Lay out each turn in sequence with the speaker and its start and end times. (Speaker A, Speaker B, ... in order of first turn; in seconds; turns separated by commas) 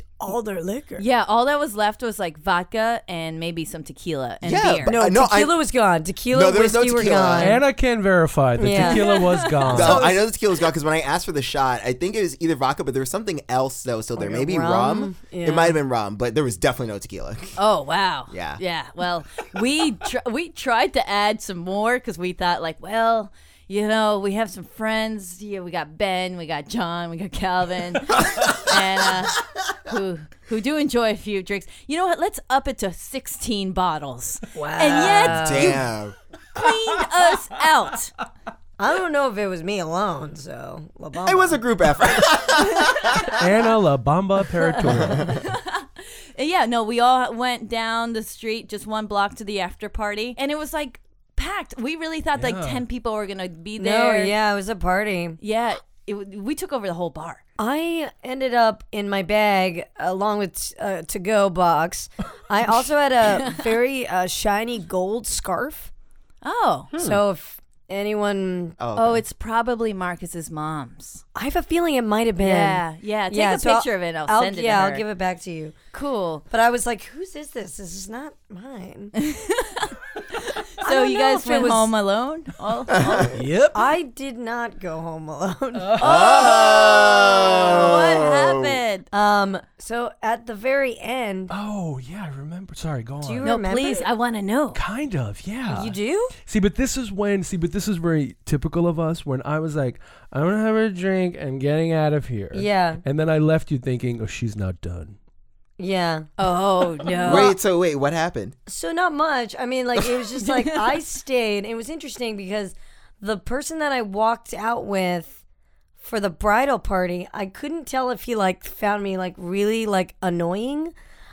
Speaker A: 0.2-1.0, Speaker B: 1.0-5.0, Speaker C: 4.4-5.6, Speaker A: 4.8-7.6, Speaker C: 6.3-7.6, Speaker D: 7.4-10.1, Speaker A: 8.6-9.1, Speaker B: 8.7-9.7, Speaker A: 9.7-10.2, Speaker C: 9.7-17.6, Speaker A: 14.2-15.8, Speaker B: 17.6-35.8, Speaker C: 18.3-18.6, Speaker A: 34.5-35.8, Speaker C: 35.1-36.1, Speaker B: 36.5-38.1, Speaker A: 38.8-41.6, Speaker C: 41.2-43.4, Speaker D: 43.3-45.4, Speaker C: 45.0-45.4, Speaker B: 45.3-54.3, Speaker D: 52.4-52.8, Speaker A: 53.8-55.4, Speaker B: 55.4-57.4, Speaker A: 57.6-65.9, Speaker B: 66.4-66.9, Speaker A: 67.0-68.8, Speaker C: 68.8-69.2, Speaker B: 68.9-71.2, Speaker A: 71.3-75.8, Speaker B: 72.4-75.0, Speaker B: 75.9-76.4, Speaker A: 76.5-79.1, Speaker B: 79.1-83.4, Speaker A: 80.8-81.9, Speaker C: 82.9-83.3, Speaker D: 83.3-83.8, Speaker A: 83.7-86.0, Speaker D: 85.7-86.5, Speaker C: 86.0-88.8, Speaker B: 86.0-89.1, Speaker A: 89.1-91.5, Speaker D: 91.5-93.5, Speaker A: 93.2-94.1, Speaker B: 93.4-94.8, Speaker D: 94.7-105.2, Speaker A: 95.7-96.3, Speaker A: 102.5-103.0, Speaker A: 105.8-106.3, Speaker B: 106.4-107.5, Speaker A: 107.1-107.5, Speaker C: 107.2-108.5, Speaker A: 108.7-115.4, Speaker A: 116.0-120.9